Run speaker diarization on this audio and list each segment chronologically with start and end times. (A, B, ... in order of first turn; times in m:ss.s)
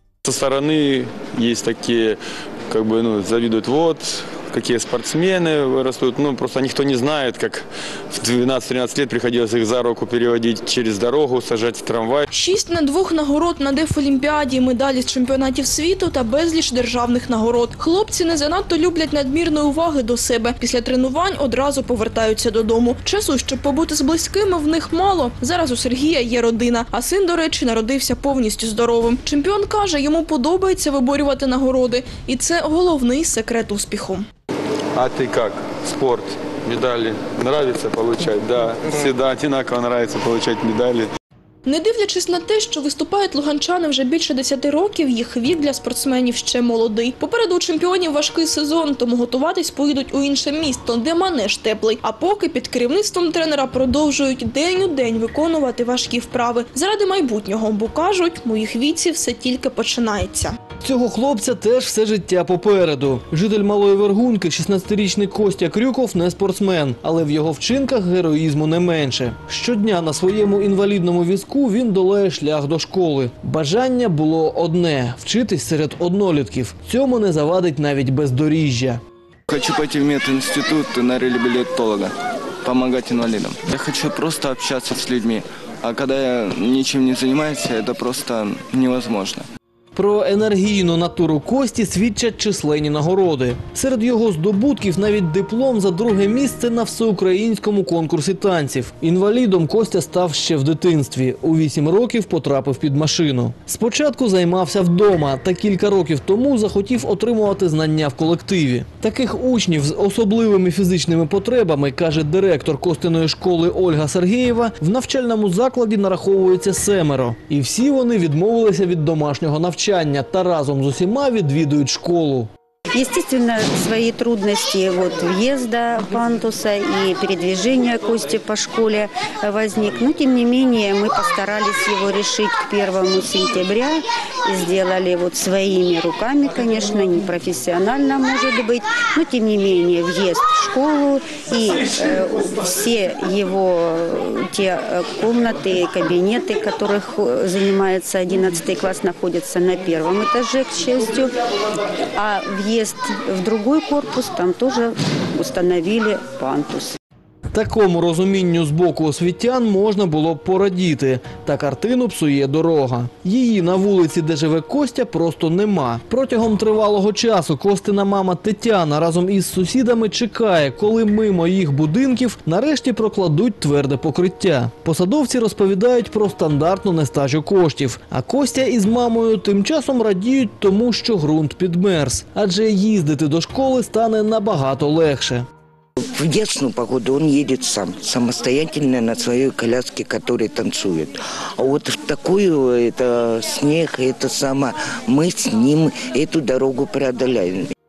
0:00.2-0:12.2 A
0:12.3-0:34.3 B
0:35.0-0:41.1 A
0:41.7-1:00.6 B
1:00.8-1:19.0 C
1:19.5-1:22.1 D
1:22.7-1:25.4 D
1:26.0-1:29.4 D
1:29.9-2:02.5 C
2:02.9-2:36.9 E
2:37.5-3:05.5 C
3:06.0-3:17.7 F